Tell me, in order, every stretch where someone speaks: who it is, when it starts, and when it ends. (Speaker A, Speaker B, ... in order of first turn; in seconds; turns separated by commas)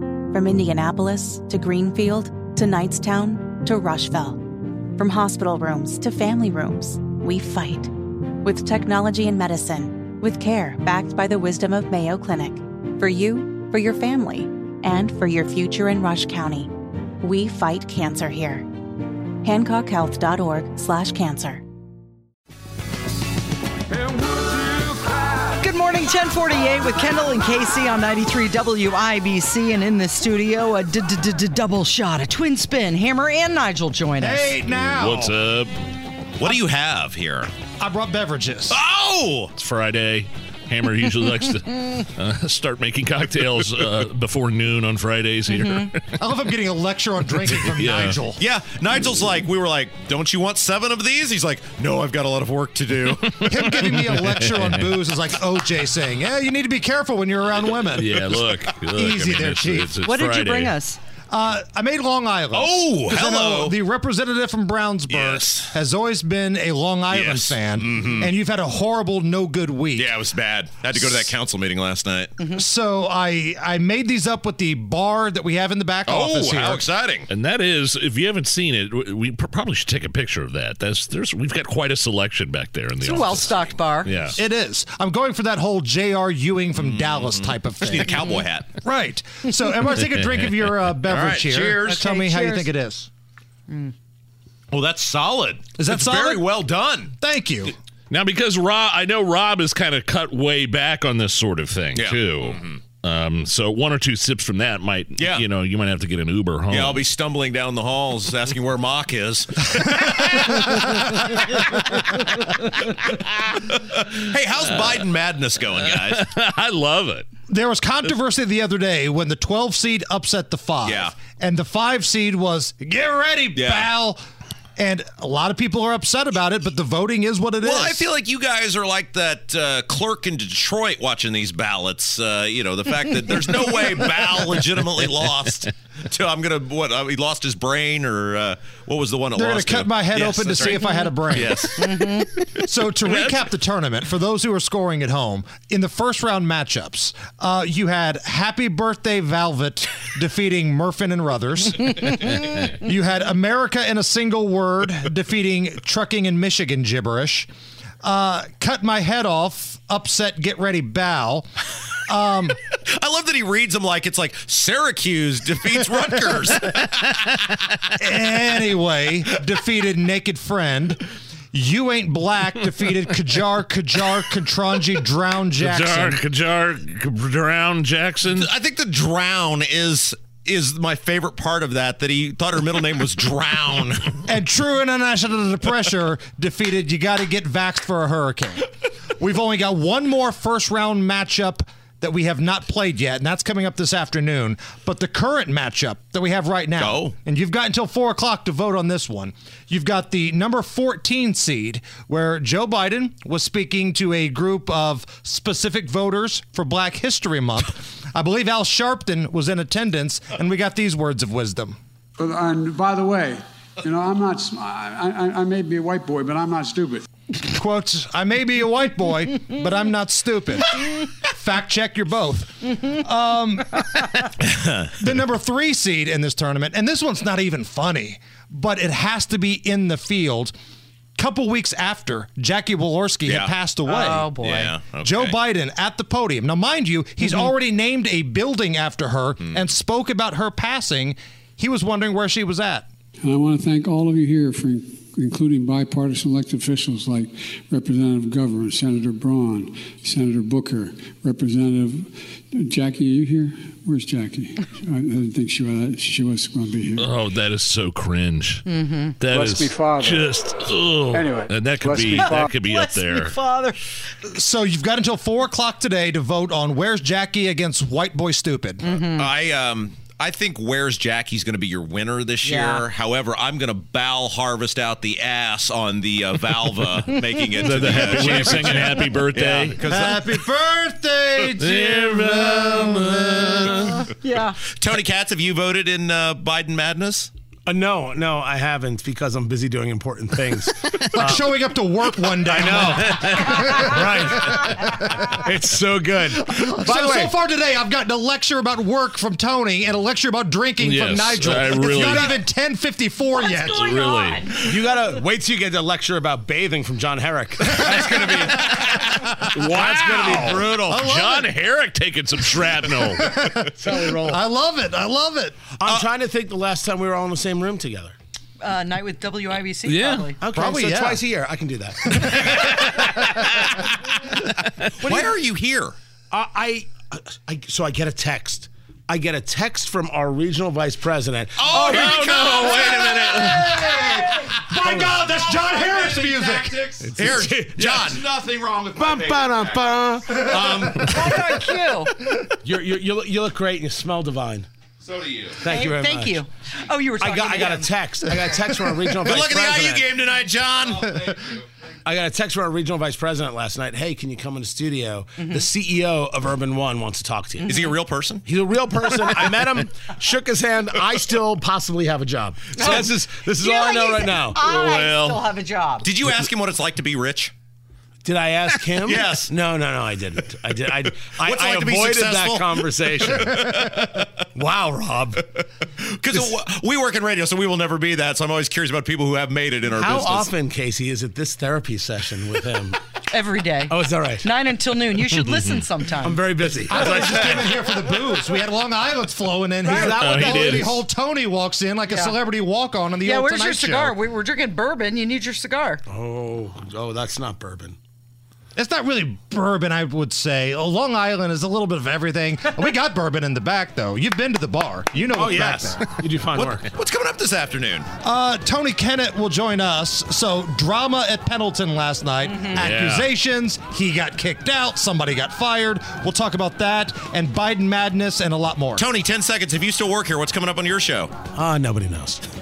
Speaker A: 0.3-4.5, Speaker A: 5.0-7.9, Speaker A: 8.4-18.7, Speaker A: 19.4-21.6, Speaker B: 24.0-24.8, Speaker C: 25.5-34.5, Speaker D: 34.2-35.4, Speaker E: 34.7-35.8, Speaker F: 36.4-37.5, Speaker D: 37.8-38.8, Speaker F: 38.7-39.5, Speaker E: 39.6-46.2, Speaker D: 46.2-48.4, Speaker E: 47.6-48.2, Speaker F: 48.4-53.6, Speaker E: 53.4-54.9, Speaker D: 53.4-58.3, Speaker E: 58.0-60.8, Speaker D: 58.9-60.0, Speaker C: 60.0-61.0, Speaker D: 61.3-70.1, Speaker F: 62.5-63.8, Speaker F: 65.1-65.7, Speaker F: 67.1-68.3, Speaker F: 70.0-72.5, Speaker D: 72.5-76.9, Speaker F: 76.1-77.3, Speaker E: 77.3-84.4, Speaker C: 83.0-84.3, Speaker F: 83.2-83.7, Speaker D: 84.3-88.2, Speaker F: 86.8-88.8, Speaker D: 88.8-93.1, Speaker F: 91.0-92.0, Speaker C: 91.8-92.7, Speaker F: 94.7-97.1, Speaker D: 95.8-96.5, Speaker D: 97.2-97.7, Speaker E: 98.1-107.0, Speaker F: 101.9-102.8, Speaker F: 105.2-105.5, Speaker F: 106.7-110.6, Speaker D: 110.3-111.1, Speaker E: 110.6-111.4, Speaker F: 113.6-116.2, Speaker E: 115.8-117.3, Speaker D: 117.5-124.2, Speaker F: 120.8-121.2, Speaker F: 123.5-123.9, Speaker D: 124.8-128.1, Speaker F: 127.6-142.3, Speaker D: 139.3-141.9, Speaker D: 142.4-157.5, Speaker D: 158.0-161.4, Speaker D: 162.1-162.6, Speaker F: 162.8-167.5, Speaker D: 168.0-171.0, Speaker D: 171.5-176.2, Speaker E: 175.6-178.5, Speaker F: 178.2-184.2, Speaker D: 184.2-211.8, Speaker F: 196.8-197.1, Speaker B: 212.2-217.1, Speaker D: 217.5-224.1, Speaker D: 225.0-230.5, Speaker D: 231.2-234.3, Speaker F: 233.3-233.5, Speaker C: 233.9-234.8, Speaker F: 234.4-235.3, Speaker D: 235.0-242.9, Speaker B: 243.2-257.2, Speaker E: 257.0-258.7, Speaker C: 258.7-259.2, Speaker E: 259.2-263.4, Speaker B: 259.2-260.4, Speaker B: 261.1-262.6, Speaker C: 262.1-263.9, Speaker D: 264.2-268.9, Speaker C: 268.8-269.3, Speaker F: 269.0-280.4, Speaker C: 272.4-272.9, Speaker E: 277.6-279.8, Speaker D: 278.2-278.6, Speaker D: 279.8-283.9, Speaker E: 281.6-283.6, Speaker C: 284.1-284.6, Speaker F: 284.7-287.3, Speaker G: 287.7-291.5, Speaker D: 291.0-294.0, Speaker G: 292.4-297.3, Speaker D: 294.5-295.2, Speaker D: 296.3-303.9, Speaker E: 300.8-302.4, Speaker C: 303.4-304.7, Speaker E: 303.7-304.5, Speaker G: 304.6-311.0, Speaker D: 307.6-308.0, Speaker E: 308.8-313.5, Speaker D: 310.4-311.5, Speaker D: 312.6-315.6, Speaker G: 313.8-314.4, Speaker G: 315.8-318.2, Speaker C: 318.6-320.4, Speaker E: 319.9-320.3, Speaker G: 320.4-323.4, Speaker D: 320.6-321.2, Speaker D: 322.0-323.0, Speaker G: 325.0-325.4, Speaker F: 325.0-326.0, Speaker G: 326.3-332.2, Speaker F: 331.6-333.9, Speaker C: 331.7-332.8, Speaker E: 332.0-333.7, Speaker D: 333.1-337.0, Speaker G: 334.8-335.1, Speaker F: 335.8-339.8, Speaker G: 337.0-338.2, Speaker G: 338.9-341.6, Speaker C: 341.0-342.1, Speaker G: 342.6-344.7, Speaker F: 345.0-345.6, Speaker G: 345.6-346.4, Speaker C: 345.6-348.0, Speaker G: 347.2-350.1, Speaker F: 349.2-351.6, Speaker G: 352.1-357.8, Speaker C: 355.4-355.6, Speaker F: 357.7-358.4, Speaker G: 358.4-364.6, Speaker C: 362.7-366.1, Speaker E: 364.6-365.4, Speaker F: 366.0-367.5, Speaker G: 368.2-373.7, Speaker F: 369.0-369.5, Speaker F: 371.1-374.3, Speaker G: 374.6-375.4, Speaker F: 376.0-380.5, Speaker G: 379.9-383.0, Speaker C: 383.2-386.4, Speaker G: 383.9-384.5, Speaker G: 386.2-387.8, Speaker D: 386.9-394.2, Speaker C: 389.8-390.2, Speaker G: 389.9-390.9, Speaker E: 390.1-391.1, Speaker C: 392.1-392.4, Speaker C: 393.2-396.0, Speaker G: 396.1-398.0, Speaker D: 398.8-406.1, Speaker G: 405.3-406.9, Speaker F: 406.5-408.1, Speaker D: 408.2-419.1, Speaker E: 412.8-413.3, Speaker F: 419.0-421.4, Speaker G: 421.5-422.4